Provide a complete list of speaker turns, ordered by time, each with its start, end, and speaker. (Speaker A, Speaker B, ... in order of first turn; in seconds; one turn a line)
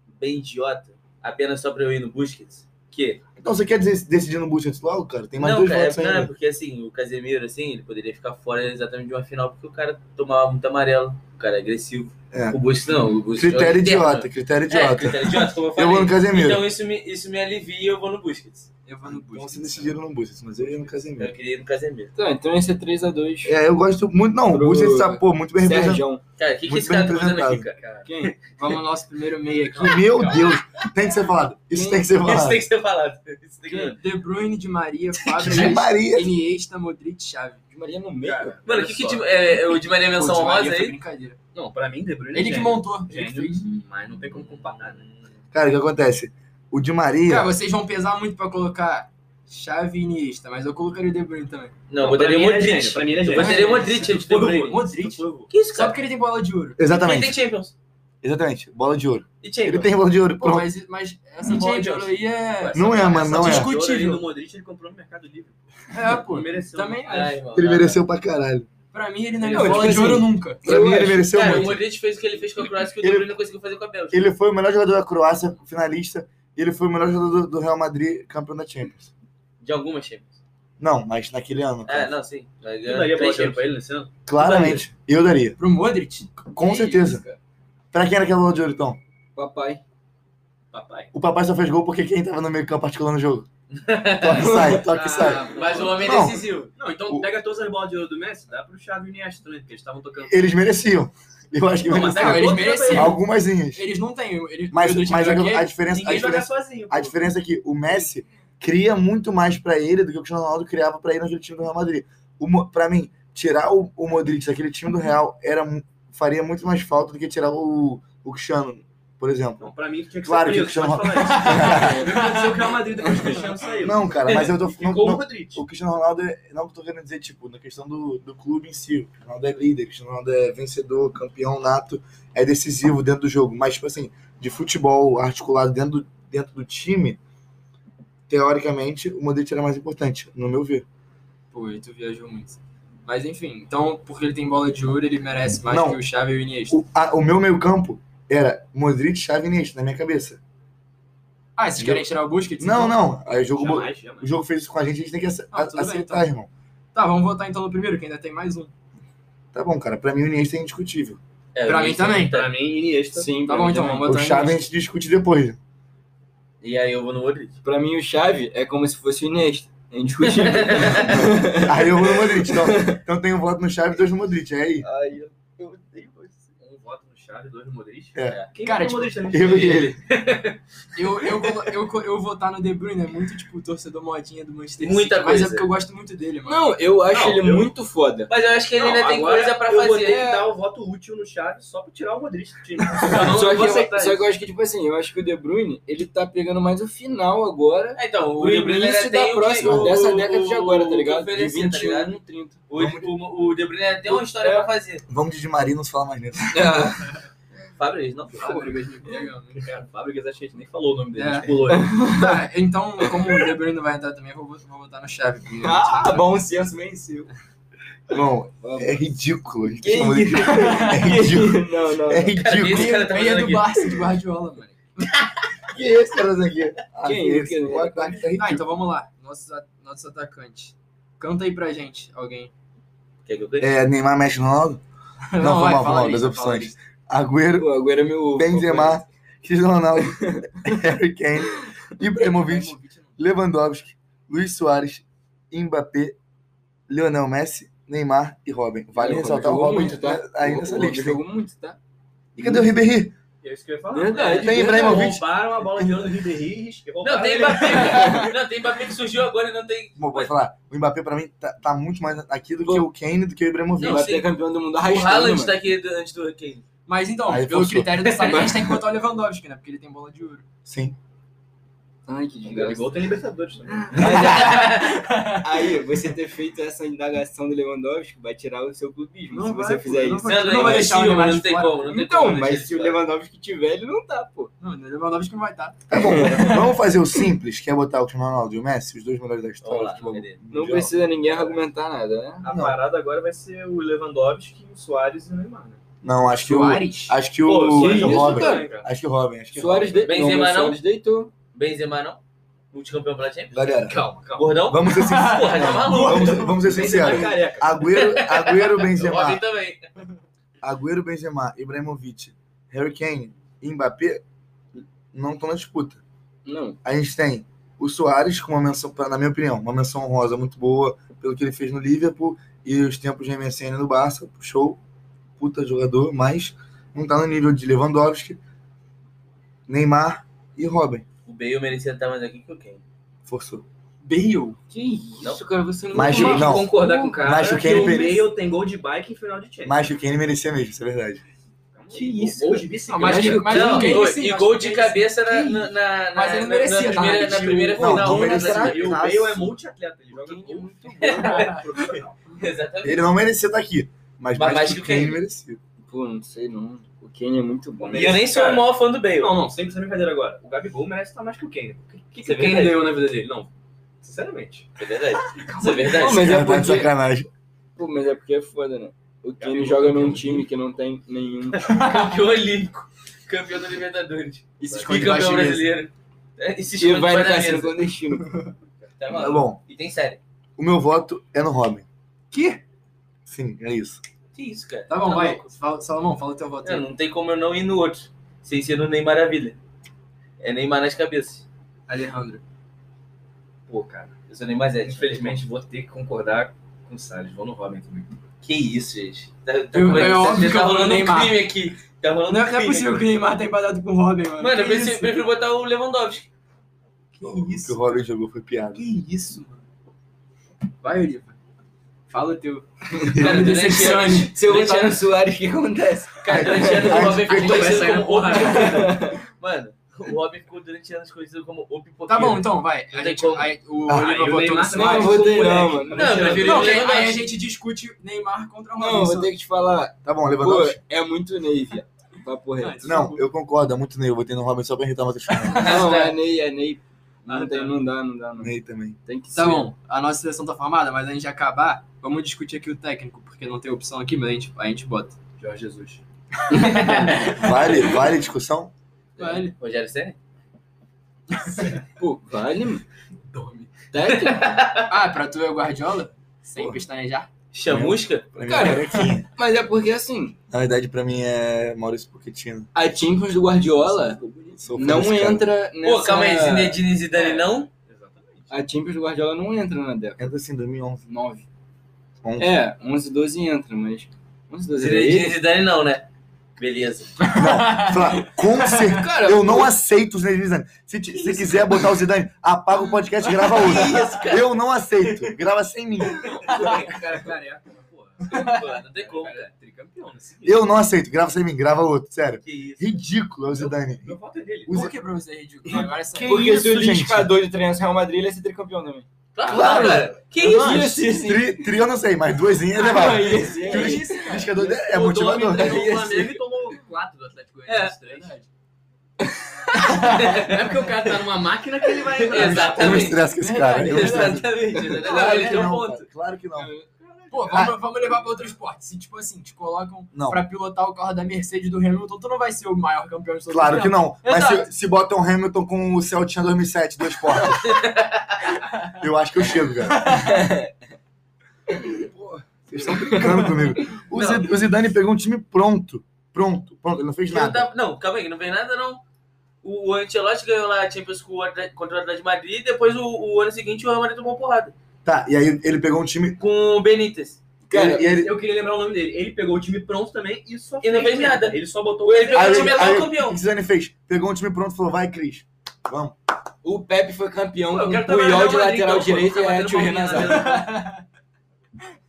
Speaker A: 0.2-3.2
Speaker B: 3.4-6.3
Speaker A: 5.4-18.7
Speaker B: 12.3-12.6
Speaker B: 13.3-16.7
Speaker C: 18.9-20.0
Speaker B: 19.1-21.3
Speaker A: 21.2-22.1
Speaker D: 22.1-23.6
Speaker B: 23.4-26.1
Speaker D: 24.5-26.2
Speaker A: 26.4-28.3
Speaker B: 26.7-27.7
Speaker D: 28.1-28.4
Speaker C: 28.6-30.4
Speaker B: 29.7-32.6
Speaker D: 31.7-32.0
Speaker A: 32.1-34.0
Speaker C: 33.7-37.6
Speaker B: 35.4-36.4
Speaker D: 37.7-38.6
Speaker E: 38.2-39.3
Speaker A: 38.6-41.0
Speaker C: 40.1-41.4
Speaker E: 41.5-45.0
Speaker C: 42.3-43.7
Speaker A: 44.7-45.1
Speaker B: 45.5-47.5
Speaker C: 47.3-51.7
Speaker A: 51.9-54.8
Speaker E: 52.0-55.5
Speaker C: 53.4-56.8
Speaker A: 55.5-56.0
Speaker B: 56.8-57.4
Speaker A: 56.9-57.7
Speaker B: 58.2-60.7
Speaker A: 59.4-59.9
Speaker C: 60.4-64.2
Speaker A: 61.4-64.2
Speaker B: 62.7-63.7
Speaker E: 63.1-67.2
Speaker C: 65.9-67.4
Speaker A: 67.1-68.0
Speaker B: 67.5-68.7
Speaker C: 68.9-70.7
Speaker A: 69.4-70.2
Speaker D: 69.5-71.8
Speaker B: 70.6-71.8
Speaker A: 70.8-74.2
Speaker B: 73.0-73.4
Speaker B: 74.1-79.1
Speaker A: 79.6-80.4
Speaker B: 80.8-82.1
Speaker A: 81.8-84.0
Speaker E: 82.8-84.8
Speaker B: 84.3-85.6
Speaker C: 85.6-86.4
Speaker B: 86.5-87.2
Speaker D: 86.6-87.4
Speaker B: 87.9-89.0
Speaker D: 89.4-89.8
Speaker E: 90.7-91.1
Speaker B: 91.1-93.5
Speaker A: 93.7-96.7
Speaker B: 94.2-96.5
Speaker D: 94.3-94.8
Speaker C: 94.9-95.5
Speaker E: 95.0-96.0
Speaker E: 96.8-100.6
Speaker B: 100.3-103.9
Speaker E: 101.9-103.2
Speaker C: 102.0-103.2
Speaker C: 103.7-106.1
Speaker B: 104.7-119.6
Speaker E: 105.9-107.2
Speaker E: 119.6-125.6
Speaker B: 120.2-122.0
Speaker C: 121.2-123.5
Speaker D: 121.7-122.1
Speaker B: 123.8-137.2
Speaker A: 124.3-124.5
Speaker B: 138.3-140.8
Speaker C: 141.5-146.8
Speaker B: 145.7-146.0
Speaker B: 146.7-150.4
Speaker C: 151.6-153.0
Speaker B: 151.8-152.1
Speaker B: 152.6-156.5
Speaker E: 153.3-154.3
Speaker C: 155.5-156.3
Speaker C: 156.9-158.7
Speaker B: 159.5-161.2
Speaker A: 161.6-162.5
Speaker C: 161.7-162.4
Speaker E: 162.3-163.3
Speaker D: 163.1-164.1
Speaker C: 163.4-164.7
Speaker B: 164.0-165.6
Speaker A: 166.6-167.6
Speaker D: 167.6-173.0
Speaker A: 170.2-171.3
Speaker B: 171.2-174.9
Speaker D: 174.8-176.4
Speaker E: 176.6-179.9
Speaker C: 178.6-179.3
Speaker B: 179.3-179.9
Speaker A: 179.5-180.6
Speaker C: 180.9-186.7
Speaker A: 184.8-185.7
Speaker D: 186.4-188.3
Speaker E: 187.1-187.7
Speaker A: 188.3-190.3
Speaker E: 188.8-193.6
Speaker D: 190.1-190.5
Speaker A: 193.0-194.2
Speaker D: 193.2-202.6
Speaker A: 198.0-202.2
Speaker B: 199.6-200.0
Speaker A: 202.7-205.1
Speaker B: 202.8-203.1
Speaker D: 204.1-204.7
Speaker B: 205.1-206.8
Speaker D: 206.5-207.2
Speaker A: 207.8-208.6
Speaker C: 208.3-209.7
Speaker E: 209.6-212.1
Speaker C: 211.2-216.3
Speaker D: 211.7-212.4
Speaker D: 213.1-213.3
Speaker D: 215.6-217.3
Speaker B: 218.1-223.0
Speaker D: 218.6-219.2
Speaker D: 219.7-222.4
Speaker C: 220.5-221.1
Speaker A: 222.4-223.9
Speaker C: 222.7-225.1
Speaker B: 225.7-228.7
Speaker D: 227.0-228.2
Speaker C: 228.3-232.5
Speaker A: 233.3-233.8
Speaker B: 233.6-234.8
Speaker C: 235.3-236.7
Speaker B: 235.4-237.7
Speaker D: 237.6-239.0
Speaker B: 238.3-246.2
Speaker D: 240.0-240.9
Speaker C: 242.6-243.0
Speaker B: 246.9-251.2
Speaker D: 248.9-251.8
Speaker B: 252.4-253.2
Speaker D: 252.4-252.7
Speaker E: 253.4-258.3
Speaker D: 253.9-255.2
Speaker A: 254.1-255.1
Speaker B: 254.4-256.2
Speaker A: 257.0-260.3
Speaker C: 257.7-258.3
Speaker B: 260.0-264.1
Speaker D: 263.8-265.6
Speaker A: 263.8-266.6
Speaker C: 266.9-270.4
Speaker B: 267.3-268.1
Speaker B: 270.6-271.0
Speaker D: 272.1-273.2
Speaker E: 272.4-274.4
Speaker D: 273.8-280.4
Speaker A: 274.0-275.1
Speaker C: 274.1-275.9
Speaker E: 279.3-280.9
Speaker A: 280.2-283.0
Speaker C: 280.3-281.9
Speaker D: 281.8-284.5
Speaker C: 284.6-286.8
Speaker B: 285.9-291.0
Speaker D: 285.9-286.5
Speaker A: 289.6-290.4
Speaker D: 290.5-292.5
Speaker E: 291.3-291.6
Speaker E: 292.4-295.8
Speaker B: 292.5-292.8
Speaker B: 296.0-300.2
Speaker C: 296.4-297.2
Speaker E: 297.4-298.9
Speaker D: 297.7-298.7
Speaker D: 299.5-301.3
Speaker A: 300.0-300.8
Speaker A: 301.5-302.2
Speaker A: 302.7-303.7
Speaker B: 303.5-304.0
Speaker E: 303.8-304.7
Speaker A: 304.4-306.6
Speaker B: 304.7-309.4
Speaker C: 305.1-306.0
Speaker E: 305.6-307.9
Speaker D: 306.6-307.6
Speaker A: 307.9-309.9
Speaker B: 310.6-314.2
Speaker B: 314.8-316.0
Speaker D: 316.5-316.8
Speaker B: 316.8-324.8
Speaker B: 325.4-328.4
Speaker B: 329.7-331.1
Speaker A: 331.3-332.8
Speaker B: 333.3-333.6
Speaker C: 334.0-334.6
Speaker D: 334.7-338.1
Speaker B: 335.9-338.3
Speaker E: 336.1-339.9
Speaker B: 339.6-341.2
Speaker E: 341.7-343.9
Speaker D: 341.9-344.1
Speaker C: 342.9-348.1
Speaker A: 343.5-349.0
Speaker D: 346.9-349.0
Speaker E: 347.0-352.1
Speaker B: 347.8-349.5
Speaker D: 350.1-351.9
Speaker C: 351.0-351.6
Speaker A: 351.0-353.1
Speaker B: 352.8-355.6
Speaker A: 354.4-355.2
Speaker D: 355.8-358.2
Speaker E: 357.8-364.7
Speaker A: 357.9-359.4
Speaker A: 362.2-362.8
Speaker A: 364.8-366.4
Speaker D: 365.5-366.9
Speaker B: 366.0-367.3
Speaker D: 367.8-371.8
Speaker E: 369.4-370.5
Speaker A: 371.7-377.8
Speaker D: 374.6-375.5
Speaker B: 374.9-375.7
Speaker D: 376.8-378.4
Speaker E: 378.8-379.1
Speaker A: 379.0-380.2
Speaker B: 379.1-379.6
Speaker B: 380.6-381.9
Speaker C: 382.3-382.6
Speaker B: 383.3-384.0
Speaker A: 384.3-385.5
Speaker C: 384.9-386.9
Speaker A: 386.6-389.6
Speaker A: 390.4-391.4
Speaker C: 391.9-392.4
Speaker E: 393.7-394.1
Speaker A: 394.3-395.4
Speaker E: 394.8-398.2
Speaker A: 398.4-403.1
Speaker C: 399.7-401.4
Speaker C: 402.3-405.1
Speaker A: 404.4-406.3
Speaker C: 407.2-407.8
Speaker B: 407.2-408.8
Speaker C: 408.8-409.5
Speaker E: 409.2-409.5
Speaker C: 410.8-411.4
Speaker C: 412.1-414.9
Speaker B: 413.1-413.5
Speaker A: 413.2-415.1
Speaker D: 413.6-417.2
Speaker A: 416.2-423.5
Speaker B: 416.3-417.8
Speaker C: 417.3-418.9
Speaker E: 417.4-418.7
Speaker D: 418.4-419.2
Speaker C: 422.1-425.4
Speaker B: 423.9-424.2
Speaker E: 424.0-426.9
Speaker D: 424.7-426.6
Speaker A: 425.9-427.3
Speaker C: 426.1-429.3
Speaker D: 428.8-433.1
Speaker B: 430.0-430.8
Speaker C: 432.6-433.2
Speaker B: 432.9-435.9
Speaker C: 435.4-436.1
Speaker D: 435.5-438.5
Speaker A: 435.6-436.1
Speaker E: 437.3-437.7
Speaker B: 438.4-439.0
Speaker D: 439.1-439.7
Speaker C: 439.4-445.2
Speaker E: 445.4-446.0
Speaker C: 446.5-447.9
Speaker A: 446.6-447.3
Speaker B: 447.4-448.7
Speaker A: 449.2-450.2
Speaker C: 449.2-449.6
Speaker C: 451.4-451.8
Speaker D: 452.0-452.8
Speaker E: 453.3-453.7
Speaker D: 453.9-454.6
Speaker A: 454.1-454.9
Speaker C: 454.9-457.3
Speaker B: 456.6-456.8
Speaker A: 457.5-458.3
Speaker B: 457.7-459.3
Speaker D: 458.5-460.4
Speaker B: 460.5-462.7
Speaker D: 462.7-466.8
Speaker B: 464.6-465.5
Speaker A: 465.8-467.7
Speaker E: 467.1-468.6
Speaker D: 468.5-470.3
Speaker B: 470.2-471.1
Speaker D: 471.1-471.4
Speaker B: 472.2-472.5
Speaker D: 472.4-475.4
Speaker A: 474.8-476.1
Speaker A: 476.6-477.4
Speaker C: 477.2-478.9
Speaker B: 477.4-486.5
Speaker D: 478.8-479.7
Speaker A: 481.1-481.9
Speaker D: 483.4-484.4
Speaker A: 483.6-484.4
Speaker E: 483.8-484.2
Speaker C: 483.8-484.1
Speaker E: 486.3-490.7
Speaker C: 486.4-486.7
Speaker A: 488.3-489.5
Speaker C: 488.3-488.6
Speaker B: 490.4-494.9
Speaker A: 492.4-493.0
Speaker E: 493.5-494.9
Speaker C: 494.7-496.6
Speaker B: 495.7-497.3
Speaker D: 496.2-501.7
Speaker A: 499.4-501.0
Speaker B: 499.5-505.9
Speaker D: 502.8-504.4
Speaker C: 503.1-504.5
Speaker E: 503.8-508.4
Speaker D: 505.5-506.4
Speaker A: 507.7-508.0
Speaker C: 508.0-508.5
Speaker D: 509.2-510.0
Speaker C: 509.8-514.4
Speaker A: 510.0-510.8
Speaker E: 510.3-513.2
Speaker A: 512.2-513.3
Speaker B: 512.3-516.7
Speaker A: 513.8-515.9
Speaker D: 514.6-515.1
Speaker E: 515.0-516.0
Speaker D: 516.6-518.3
Speaker C: 517.3-524.7
Speaker B: 520.1-520.4
Speaker B: 523.5-527.8
Speaker A: 527.4-528.5
Speaker B: 528.9-530.2
Speaker D: 530.0-530.7
Speaker B: 531.9-537.7
Speaker D: 532.9-533.6
Speaker A: 534.1-534.5
Speaker A: 537.3-539.0
Speaker A: 539.6-544.7
Speaker B: 545.0-546.4
Speaker A: 546.4-547.4
Speaker D: 547.7-548.1
Speaker B: 547.7-548.4
Speaker E: 548.1-553.0
Speaker A: 550.8-553.4
Speaker B: 552.3-556.1
Speaker D: 556.6-560.6
Speaker E: 557.7-560.8
Speaker A: 559.0-560.6
Speaker C: 560.2-561.0